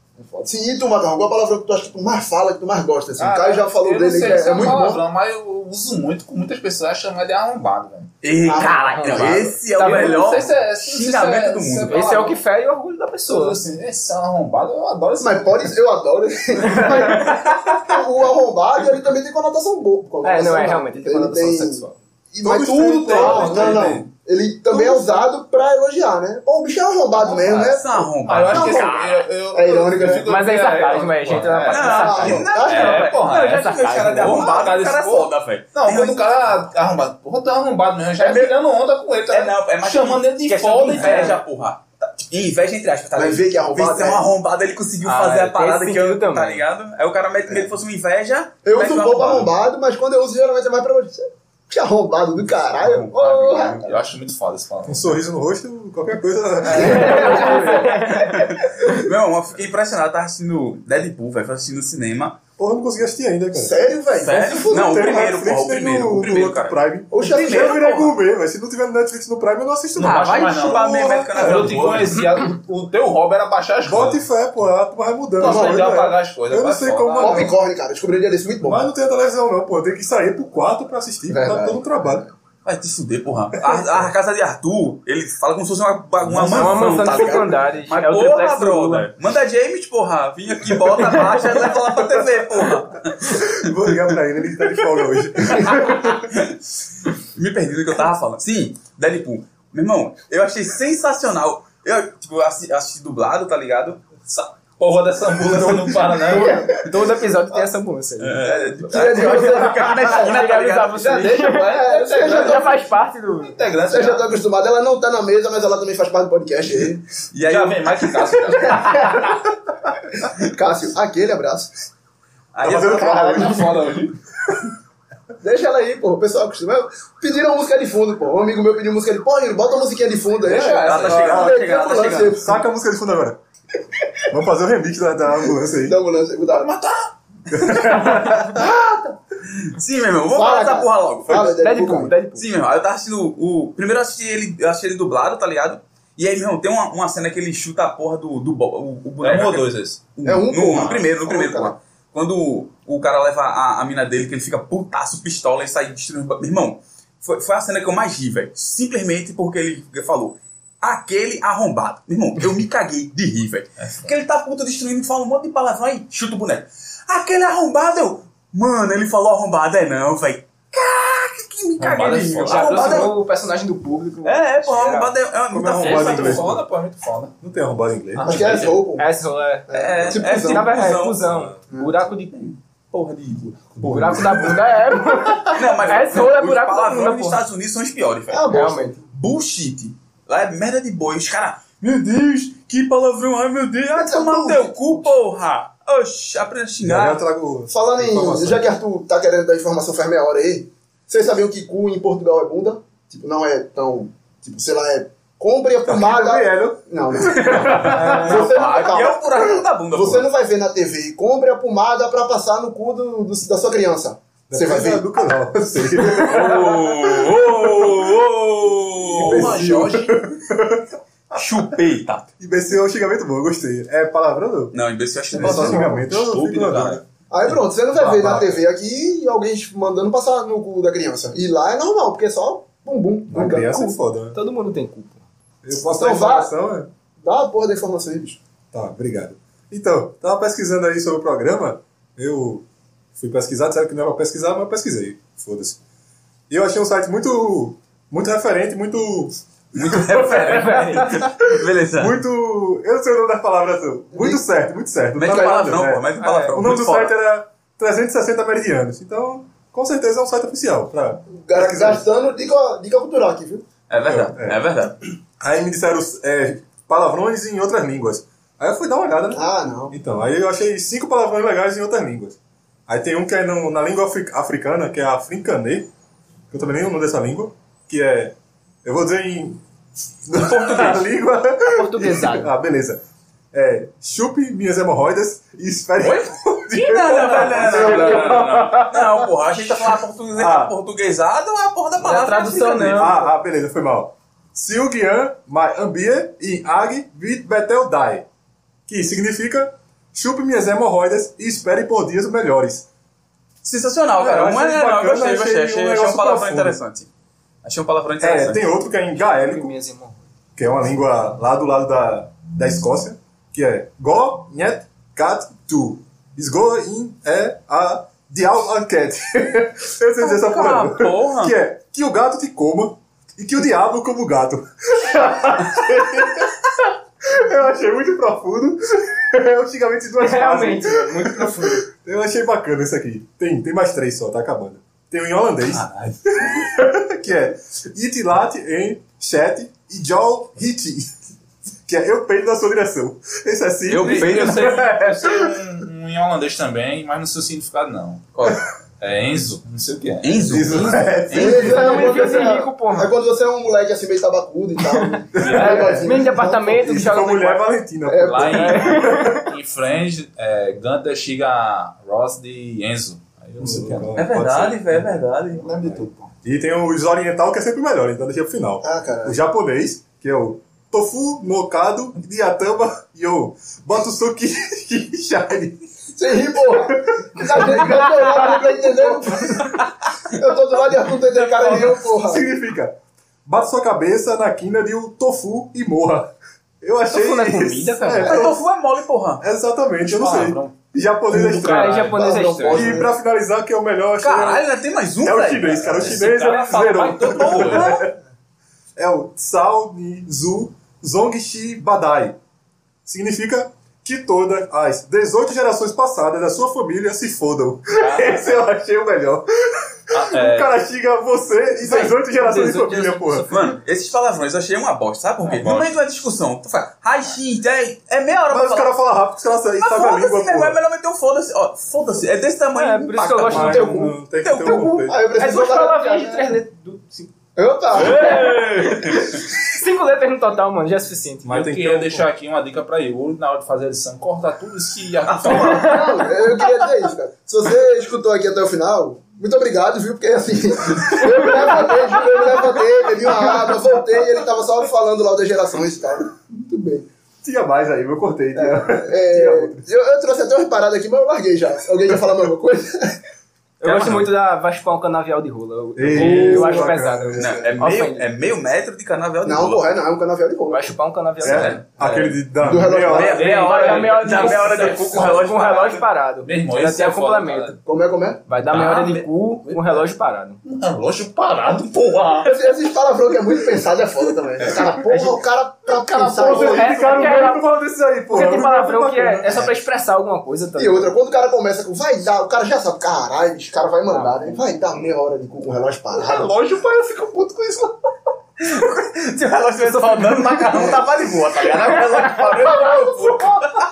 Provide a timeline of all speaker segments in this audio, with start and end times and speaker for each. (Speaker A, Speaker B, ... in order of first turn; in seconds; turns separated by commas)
Speaker A: 0.2-5.0, Speaker B: 3.2-8.1, Speaker C: 8.2-12.2, Speaker A: 8.4-9.6, Speaker D: 8.6-10.4, Speaker B: 9.8-12.4, Speaker D: 11.9-13.6, Speaker B: 13.3-15.7, Speaker A: 15.2-30.3, Speaker D: 16.7-17.4, Speaker D: 20.2-22.0, Speaker E: 22.4-24.0, Speaker C: 23.0-24.1, Speaker C: 27.2-28.9, Speaker B: 28.2-41.4, Speaker D: 30.2-32.4, Speaker C: 31.6-36.3, Speaker A: 31.8-33.1, Speaker D: 33.2-34.7, Speaker C: 38.2-38.5, Speaker C: 39.3-49.5, Speaker D: 40.9-41.4, Speaker A: 43.1-44.2, Speaker D: 45.0-46.6, Speaker A: 48.6-54.0, Speaker C: 52.8-53.9, Speaker B: 53.8-55.2, Speaker E: 54.9-58.0, Speaker A: 56.7-57.9, Speaker D: 56.7-58.5, Speaker C: 57.9-62.4, Speaker E: 62.6-63.8, Speaker A: 63.5-65.1, Speaker C: 64.2-68.2, Speaker E: 64.6-71.8, Speaker A: 67.1-67.8, Speaker B: 69.9-74.2, Speaker C: 70.0-72.3, Speaker E: 73.8-77.5, Speaker B: 75.4-77.5, Speaker A: 75.4-75.9, Speaker A: 77.2-78.9, Speaker E: 78.6-82.2, Speaker A: 81.3-82.3, Speaker C: 82.6-94.2, Speaker E: 83.5-84.1, Speaker E: 86.2-87.2, Speaker D: 86.5-89.1, Speaker E: 93.2-96.2, Speaker C: 95.5-104.0, Speaker B: 104.3-106.6, Speaker D: 106.3-113.6, Speaker A: 106.3-107.0, Speaker C: 108.2-111.2, Speaker A: 108.9-110.3, Speaker B: 110.9-114.3, Speaker A: 111.7-112.7, Speaker A: 113.9-117.0, Speaker C: 117.3-118.7, Speaker B: 117.4-119.2, Speaker A: 118.8-119.3, Speaker A: 120.4-121.7, Speaker C: 122.5-123.7, Speaker E: 122.6-123.7, Speaker B: 122.6-124.1, Speaker A: 125.4-132.5, Speaker B: 130.4-131.5, Speaker C: 130.5-132.5, Speaker E: 132.3-133.4, Speaker E: 134.3-135.9, Speaker A: 135.7-136.7, Speaker B: 136.6-137.0, Speaker E: 137.5-138.6, Speaker A: 138.1-139.2, Speaker C: 139.6-141.5, Speaker A: 140.3-142.2, Speaker D: 141.3-142.4, Speaker C: 142.3-173.2, Speaker B: 149.2-150.0, Speaker A: 150.2-151.7, Speaker B: 163.8-164.1, Speaker B: 171.8-173.1, Speaker D: 172.4-175.1, Speaker C: 174.2-176.5, Speaker E: 175.5-176.6, Speaker B: 175.8-177.3, Speaker E: 177.4-178.4, Speaker B: 178.1-178.8, Speaker A: 178.2-179.1, Speaker D: 179.0-179.7, Speaker A: 179.7-180.7, Speaker C: 179.7-181.3, Speaker D: 180.3-182.3, Speaker E: 181.2-181.6, Speaker A: 181.7-182.0, Speaker C: 182.3-183.6, Speaker E: 183.8-184.8, Speaker D: 183.8-187.4, Speaker C: 185.5-188.5, Speaker A: 188.3-188.9, Speaker D: 188.5-189.0, Speaker C: 189.1-197.2, Speaker A: 193.9-195.1, Speaker E: 196.8-198.7, Speaker A: 197.7-215.1, Speaker E: 205.9-208.3, Speaker C: 207.8-210.3, Speaker E: 214.5-218.1, Speaker A: 215.8-216.5, Speaker C: 216.0-219.6, Speaker B: 219.1-220.2, Speaker E: 219.1-221.7, Speaker C: 221.3-222.3, Speaker E: 222.4-224.8, Speaker C: 224.7-226.0, Speaker A: 225.3-226.1, Speaker E: 225.3-227.0, Speaker B: 226.1-227.0, Speaker A: 227.3-233.9, Speaker E: 227.9-228.6, Speaker E: 233.3-234.4, Speaker D: 234.3-235.2, Speaker E: 235.6-236.9, Speaker A: 235.9-236.5, Speaker A: 237.2-238.4, Speaker E: 238.7-245.8, Speaker E: 246.5-262.0, Speaker C: 249.7-252.2, Speaker D: 250.2-251.3, Speaker A: 254.1-254.4, Speaker C: 255.2-257.1, Speaker D: 256.2-256.6, Speaker A: 261.4-263.6, Speaker C: 263.9-265.0, Speaker E: 264.1-264.6, Speaker E: 265.4-275.9, Speaker A: 269.3-269.9, Speaker E: 276.5-279.6, Speaker E: 280.2-289.3, Speaker C: 280.3-281.0, Speaker D: 281.6-282.5, Speaker C: 286.0-293.2, Speaker D: 287.3-288.9, Speaker E: 290.3-290.7, Speaker D: 292.0-293.2, Speaker E: 292.9-298.2, Speaker E: 298.9-302.9, Speaker C: 303.6-307.1, Speaker E: 304.2-306.8, Speaker C: 307.6-308.6, Speaker E: 308.2-309.7, Speaker D: 309.1-310.2, Speaker E: 310.6-341.1, Speaker C: 320.2-321.6, Speaker D: 330.2-331.9, Speaker E: 341.9-345.6, Speaker C: 343.9-344.8, Speaker B: 343.9-348.3, Speaker C: 348.3-348.6, Speaker B: 349.0-351.0, Speaker C: 350.2-351.9, Speaker E: 350.4-352.1, Speaker A: 351.3-356.6, Speaker D: 351.6-353.1, Speaker E: 355.4-359.4, Speaker B: 355.4-356.1, Speaker D: 355.8-357.7, Speaker A: 358.1-358.7, Speaker B: 358.1-364.2, Speaker D: 358.4-359.5, Speaker E: 363.6-365.1, Speaker C: 364.1-365.7, Speaker B: 365.5-366.3, Speaker E: 365.9-375.9, Speaker A: 368.8-369.4, Speaker A: 376.1-382.4, Speaker E: 376.6-378.5, Speaker E: 379.0-379.7, Speaker E: 381.5-388.6, Speaker D: 387.1-388.4, Speaker C: 388.2-389.4, Speaker E: 389.4-392.1, Speaker B: 390.0-392.2, Speaker D: 391.6-393.0, Speaker A: 392.1-393.1, Speaker E: 392.7-394.6, Speaker C: 394.2-396.1, Speaker E: 395.2-398.1, Speaker B: 395.8-398.0, Speaker C: 397.1-398.1, Speaker E: 398.9-402.4, Speaker E: 403.0-413.5, Speaker B: 408.0-408.2, Speaker B: 410.1-410.7, Speaker D: 411.8-413.6, Speaker C: 413.5-418.9, Speaker E: 418.5-420.8, Speaker C: 419.8-425.1, Speaker D: 422.7-424.1, Speaker E: 423.5-425.2, Speaker A: 424.6-426.6, Speaker D: 425.3-427.3, Speaker A: 427.6-428.6, Speaker E: 427.9-429.2, Speaker D: 428.0-431.5, Speaker E: 431.4-432.3, Speaker B: 431.4-436.0, Speaker D: 435.4-436.9, Speaker A: 435.4-447.1, Speaker D: 441.0-442.2, Speaker E: 447.4-449.8, Speaker A: 448.5-453.2, Speaker D: 453.8-458.3, Speaker C: 453.8-454.3, Speaker E: 455.9-457.7, Speaker A: 456.1-457.7, Speaker C: 457.4-460.0, Speaker A: 459.4-460.9, Speaker D: 460.7-461.8, Speaker E: 461.4-463.3, Speaker C: 461.4-461.8, Speaker B: 462.0-462.4, Speaker A: 462.6-463.5, Speaker C: 463.1-466.0, Speaker B: 463.1-465.8, Speaker D: 463.4-467.8, Speaker B: 466.4-467.8, Speaker A: 467.8-468.4, Speaker D: 468.5-470.6, Speaker B: 468.7-470.1, Speaker B: 470.6-472.6, Speaker A: 472.4-477.1, Speaker E: 476.1-479.7, Speaker D: 476.4-477.6, Speaker D: 478.3-481.1, Speaker A: 480.8-486.5, Speaker D: 484.1-484.6, Speaker B: 486.1-487.9, Speaker C: 488.6-493.7, Speaker B: 490.0-493.6, Speaker D: 490.4-490.9